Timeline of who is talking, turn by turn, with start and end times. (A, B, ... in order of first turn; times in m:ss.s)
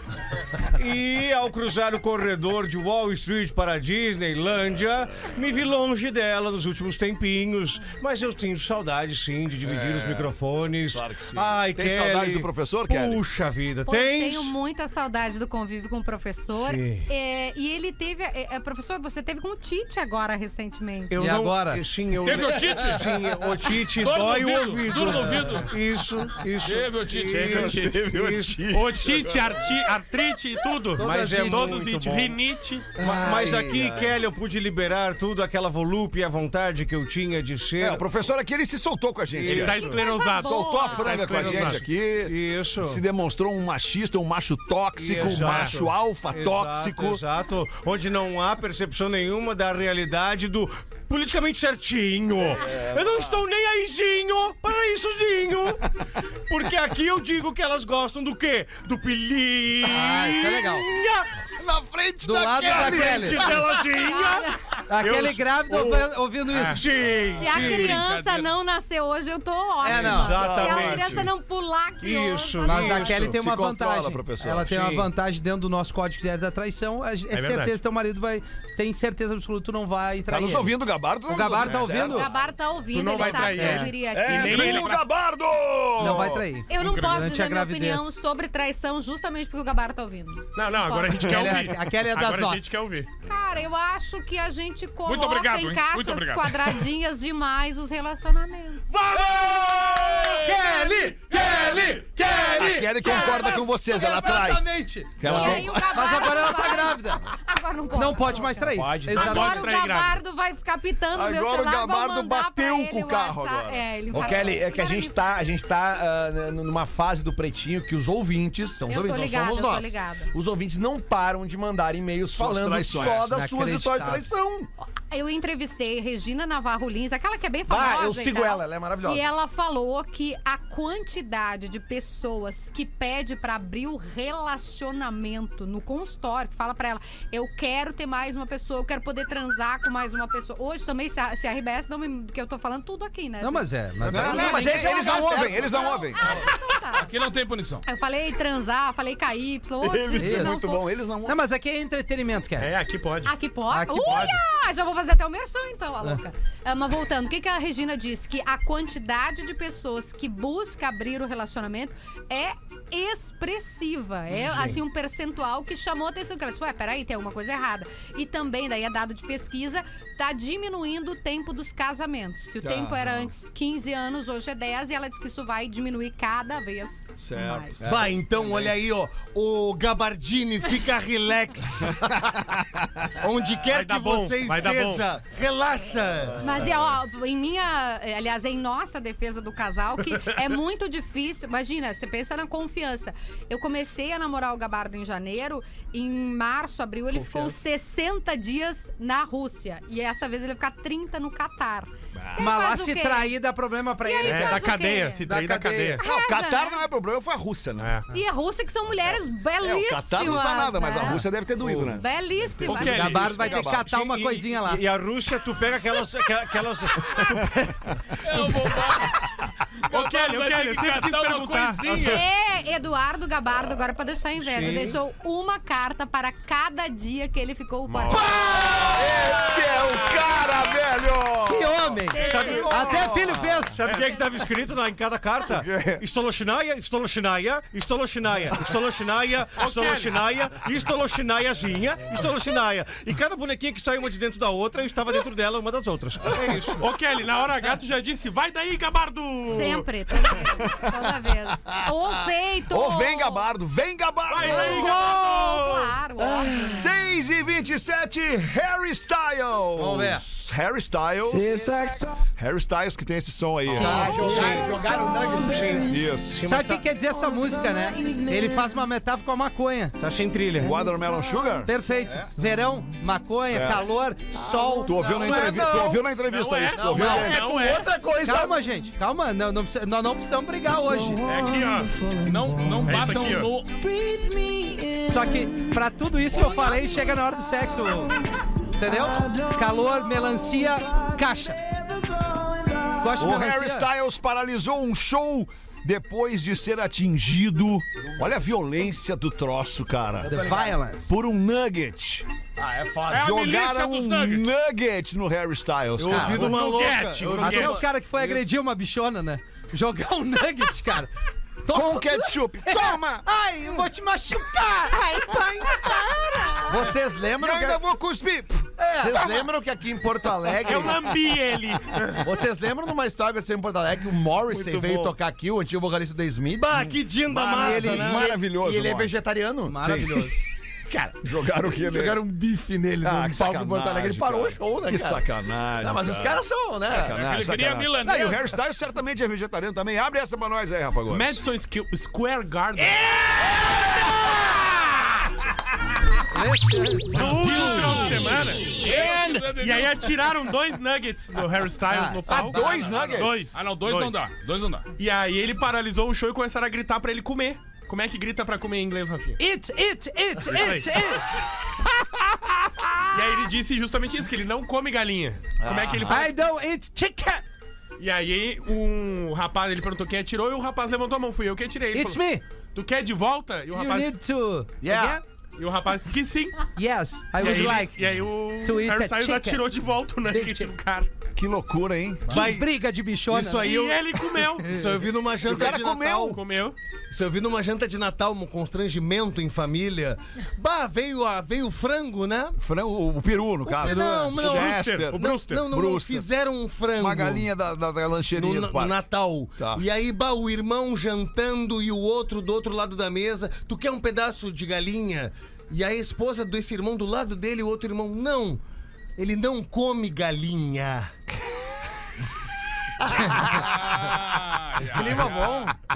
0:00.7-0:14.5 A
0:09.6-0:10.3 B
0:10.9-0:13.2 B
0:13.8-0:21.2 C
0:16.6-0:17.1 A
0:21.1-0:28.6 A
0:21.2-0:21.8 D
0:22.2-0:23.3 E
0:23.8-0:25.7 E
0:26.6-0:27.7 E
0:27.3-0:28.1 F
0:27.3-0:29.6 B
0:28.6-0:33.0 F
0:31.0-0:31.8 D
0:31.0-0:32.4 A
0:33.0-0:34.2 B
0:33.0-0:38.0 A
0:37.8-0:47.2 B
0:39.4-0:40.0 A
0:39.4-0:41.8 F
0:39.8-0:41.4 C
0:41.1-0:43.0 A
0:45.0-0:55.9 A
0:45.2-0:45.8 F
0:52.6-0:53.1 B
0:56.5-1:01.3 A
0:59.9-1:00.9 D
1:01.6-1:03.8 B
1:02.2-1:03.5 D
1:02.6-1:08.0 A
1:03.9-1:04.6 C
1:04.9-1:06.8 D
1:06.5-1:06.9 F
1:07.4-1:13.2 C
1:07.4-1:08.5 E
1:09.8-1:10.4 D
1:09.9-1:11.3 A
1:10.3-1:11.3 B
1:12.0-1:13.3 A
1:12.6-1:22.3 D
1:13.1-1:15.0 B
1:17.3-1:17.8 F
1:20.3-1:22.3 B
1:21.6-1:21.9 F
1:21.9-1:24.9 C
1:22.9-1:25.0 F
1:23.2-1:23.9 D
1:24.1-1:26.4 B
1:26.0-1:28.2 D
1:26.7-1:31.4 C
1:30.6-1:33.1 F
1:31.1-1:32.7 D
1:33.2-1:38.9 C
1:35.0-1:36.8 E
1:39.1-1:40.7 E
1:40.4-1:47.2 D
1:42.4-1:46.4 B
1:45.2-1:55.2 C
1:47.9-1:49.7 D
1:48.8-1:49.1 G
1:49.1-1:50.2 F
1:51.1-1:54.4 B
1:54.1-2:04.7 G
1:58.8-2:00.3 C
2:02.3-2:03.3 B
2:03.1-2:04.2 D
2:05.1-2:27.1 C
2:07.7-2:09.2 G
2:23.4-2:24.6 D
2:24.0-2:26.0 G
2:24.0-2:26.4 B
2:26.9-2:27.8 E
2:27.8-2:30.9 C
2:29.8-2:31.4 B
2:30.2-2:30.6 D
2:31.2-2:32.7 D
2:32.6-2:33.3 F
2:33.2-2:57.8 C
2:33.7-2:34.3 D
2:34.0-2:34.4 F
2:52.6-2:53.3 B
2:57.2-2:58.1 B
2:57.8-3:02.2 A
3:02.3-3:02.6 B
3:03.2-3:06.4 A
3:03.6-3:05.1 F
3:06.4-3:23.3 C
3:22.2-3:22.5 B
3:22.4-3:24.7 D
3:24.0-3:25.2 C
3:24.2-3:26.0 F
3:25.2-3:26.0 D
3:26.0-3:26.8 C
3:26.0-3:27.9 B
3:27.8-3:28.1 F
3:28.1-3:31.2 C
3:29.6-3:33.9 B
3:31.8-3:33.3 C
3:32.6-3:33.6 F
3:32.9-3:34.8 D
3:33.9-3:37.8 A
3:38.2-3:42.2 E
3:39.9-3:42.2 F
3:42.0-3:48.7 C
3:44.5-3:45.0 A
3:47.9-3:49.0 F
3:48.2-3:53.7 B
3:49.6-3:50.3 F
3:51.4-3:53.8 D
3:52.1-3:53.2 C
3:52.2-3:52.9 F
3:53.8-4:06.8 A
3:53.8-3:54.1 F
3:53.9-3:54.3 C
3:55.5-3:56.0 B
3:59.6-4:00.2 F
4:06.7-4:09.9 F
4:09.5-4:13.5 C
4:10.6-4:10.9 B
4:12.7-4:15.0 B
4:14.3-4:15.9 F
4:14.4-4:16.8 C
4:16.2-4:16.5 G
4:16.4-4:24.6 B
4:19.8-4:20.2 D
4:23.7-4:25.9 G
4:23.7-4:24.7 D
4:23.8-4:26.8 A
4:25.8-4:26.5 B
4:26.4-4:29.9 D
4:30.0-4:30.8 A
4:30.6-4:31.7 B
4:31.6-4:36.0 D
4:33.5-4:33.8 B
4:34.8-4:37.5 B
4:35.2-4:35.6 F
4:35.2-4:35.9 G
4:36.2-4:37.9 F
4:36.8-4:38.5 G
4:36.9-4:37.9 A
4:38.2-4:41.3 D
4:41.2-4:42.1 F
4:42.2-4:43.8 E
4:42.8-4:43.5 F
4:45.0-4:51.8 D
4:52.9-4:53.9 D
4:53.1-5:00.4 B
5:00.2-5:00.8 G
5:00.3-5:01.1 D
5:01.1-5:02.2 B
5:02.6-5:03.3 G
5:03.1-5:04.5 E
5:03.1-5:06.6 B
5:06.0-5:07.8 A
5:06.1-5:06.5 D
5:06.2-5:07.8 F
5:07.1-5:07.8 G
5:07.4-5:11.1 D
5:11.6-5:15.0 D
5:11.7-5:13.3 B
5:15.1-5:15.9 A
5:16.6-5:17.8 G
5:17.4-5:18.7 B
5:18.8-5:19.2 D
5:19.0-5:21.1 G
5:20.6-5:22.2 F
5:22.2-5:30.1 G
5:26.6-5:28.3 A
5:27.3-5:29.2 B
5:29.7-5:30.4 D
5:29.8-5:30.2 B
5:30.9-5:35.2 G
5:31.2-5:32.3 B
5:33.0-5:41.4 B
5:35.8-5:37.2 G
5:37.1-5:38.5 E
5:41.1-5:43.0 F
5:42.8-5:43.7 G
5:44.2-5:44.6 G
5:46.3-5:48.0 D
5:47.1-5:54.2 F
5:47.4-5:50.1 E
5:51.9-5:53.2 D
5:52.3-5:53.5 B
5:53.5-5:54.8 E
5:55.0-5:59.4 F
5:59.4-6:01.4 D
6:00.4-6:01.2 F
6:03.1-6:06.3 F
6:05.6-6:06.1 G
6:06.0-6:07.4 D
6:08.0-6:14.1 F
6:11.9-6:12.4 D
6:13.7-6:15.2 D
6:14.8-6:15.2 G
6:15.6-6:16.6 F
6:16.8-6:18.0 D
6:17.4-6:21.1 F
6:18.6-6:19.6 D
6:20.3-6:20.7 D
6:21.4-6:22.5 B
6:22.3-6:22.7 A
6:22.3-6:23.7 D
6:23.3-6:24.1 A
6:23.6-6:24.9 F
6:24.6-6:26.3 A
6:25.4-6:26.4 B
6:25.5-6:26.8 F
6:27.1-6:32.6 A
6:32.6-6:36.3 B
6:33.6-6:37.5 A
6:33.8-6:34.3 D
6:34.3-6:35.6 F
6:37.0-6:39.0 B
6:38.3-6:48.6 A
6:39.6-6:39.8 B
6:49.2-6:51.1 A
6:53.2-6:53.6 B
6:53.3-6:55.7 E
6:54.8-6:55.7 G